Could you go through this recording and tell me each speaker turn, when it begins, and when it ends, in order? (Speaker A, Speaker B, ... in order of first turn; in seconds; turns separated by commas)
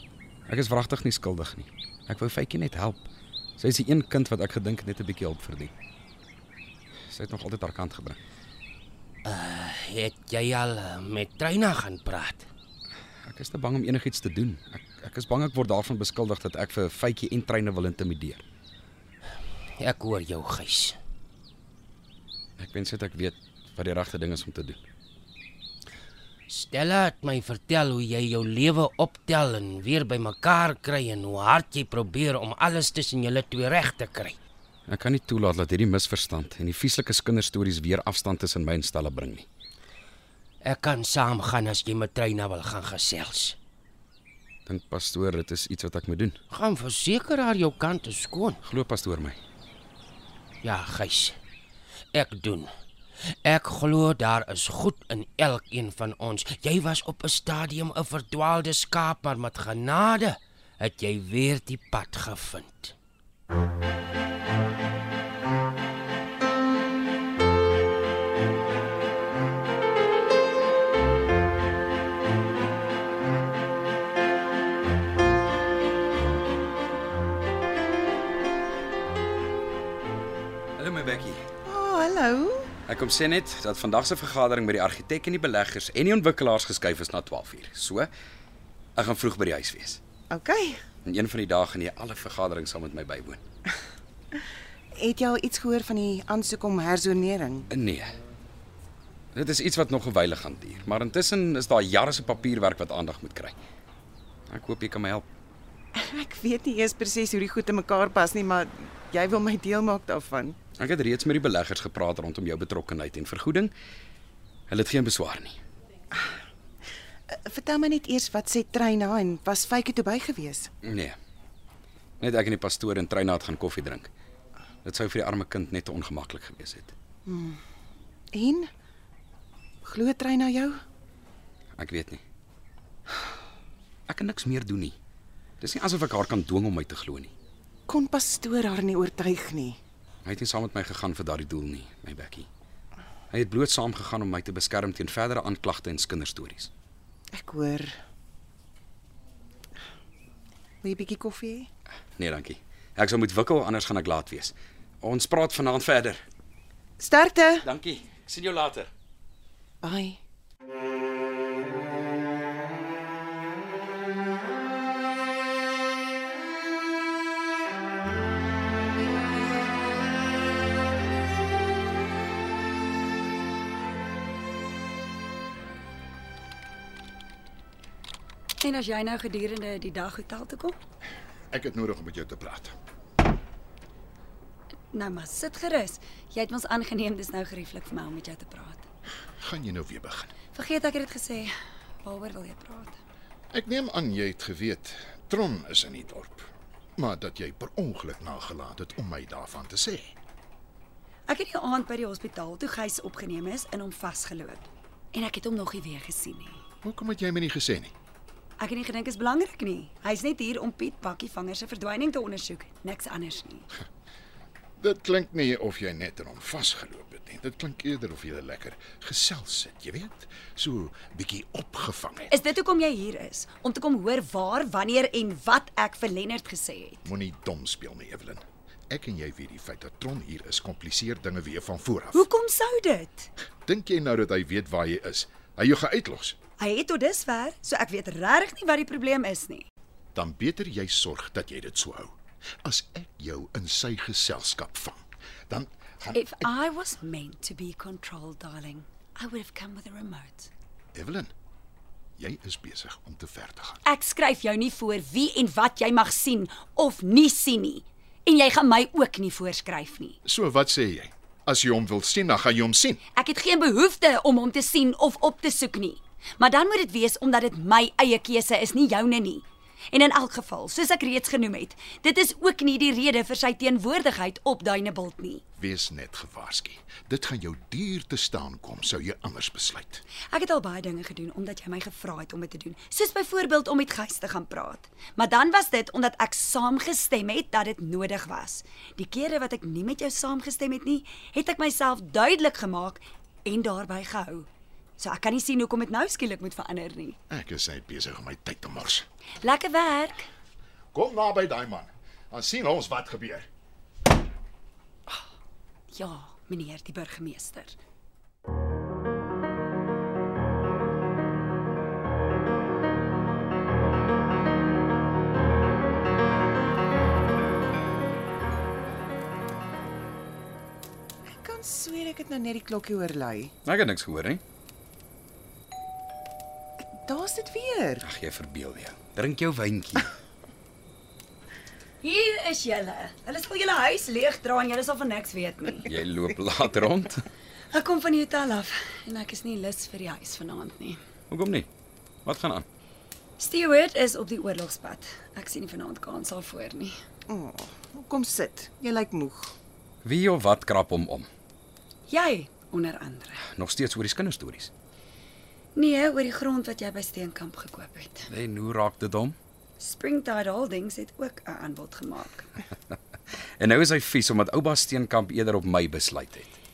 Speaker A: 0.5-5.7, Speaker A: 7.1-8.2, Speaker B: 9.3-12.4, Speaker A: 13.2-18.4, Speaker B: 19.8-21.0, Speaker A: 22.6-24.8, Speaker B: 26.5-34.4, Speaker A: 34.9-39.5, Speaker B: 40.6-43.5, Speaker A: 44.6-46.4, Speaker B: 46.5-48.6, Speaker A: 48.6-49.4, Speaker B: 50.6-51.4, Speaker B: 52.1-52.7, Speaker B: 53.4-62.9, Speaker A: 80.8-81.4, Speaker C: 81.6-82.7, Speaker A: 82.9-88.1, Speaker A: 89.0-90.0, Speaker C: 90.3-90.8, Speaker A: 91.0-93.4, Speaker C: 94.9-97.7, Speaker A: 97.7-98.1, Speaker A: 99.3-103.5, Speaker A: 104.5-105.2, Speaker C: 105.9-110.6, Speaker A: 110.8-113.7, Speaker A: 114.7-115.6, Speaker C: 117.3-120.7, Speaker A: 120.8-121.2, Speaker A: 122.2-124.1, Speaker A: 124.8-126.9, Speaker C: 127.2-127.6, Speaker C: 128.3-128.7, Speaker C: 129.8-130.8, Speaker A: 131.8-132.2, Speaker A: 134.1-135.0, Speaker A: 135.6-137.3, Speaker C: 137.9-139.8, Speaker A: 140.2-142.5, Speaker A: 143.3-146.7, Speaker C: 147.3-147.9, Speaker C: 150.8-151.7, Speaker A: 152.2-156.2, Speaker C: 157.0-157.6, Speaker A: 157.6-158.9, Speaker C: 159.8-160.2, Speaker D: 178.6-180.8, Speaker E: 181.5-182.7, Speaker D: 184.9-188.8, Speaker E: 189.4-190.3, Speaker D: 190.5-191.5, Speaker D: 192.0-193.0, Speaker E: 193.5-200.1, Speaker D: 201.3-206.6, Speaker E: 206.8-207.9, Speaker D: 208.6-213.7, Speaker E: 214.8-222.3, Speaker D: 222.3-227.1, Speaker E: 227.0-232.3, Speaker D: 232.1-233.3, Speaker E: 233.7-236.3, Speaker D: 236.6-239.6, Speaker E: 240.1-246.4, Speaker D: 246.1-250.5, Speaker E: 250.9-251.3, Speaker E: 252.2-253.8, Speaker D: 253.8-260.2, Speaker E: 260.2-263.0, Speaker D: 263.1-275.4, Speaker E: 275.6-280.0, Speaker D: 280.3-294.5, Speaker D: 295.0-297.2, Speaker E: 297.3-299.0, Speaker D: 299.4-300.2, Speaker E: 300.9-303.4, Speaker D: 305.9-307.8, Speaker C: 321.3-323.5, Speaker A: 323.6-324.4, Speaker C: 326.8-328.0, Speaker A: 328.0-330.1, Speaker D: 332.0-335.9, Speaker A: 335.8-337.2, Speaker D: 337.7-341.0, Speaker A: 341.3-341.7, Speaker A: 342.2-342.6, Speaker D: 343.4-346.9, Speaker C: 347.3-349.5, Speaker A: 350.0-351.3, Speaker D: 352.1-353.4, Speaker A: 353.5-354.7, Speaker D: 355.7-358.3, Speaker A: 358.3-359.4, Speaker D: 359.8-362.5, Speaker A: 363.3-366.6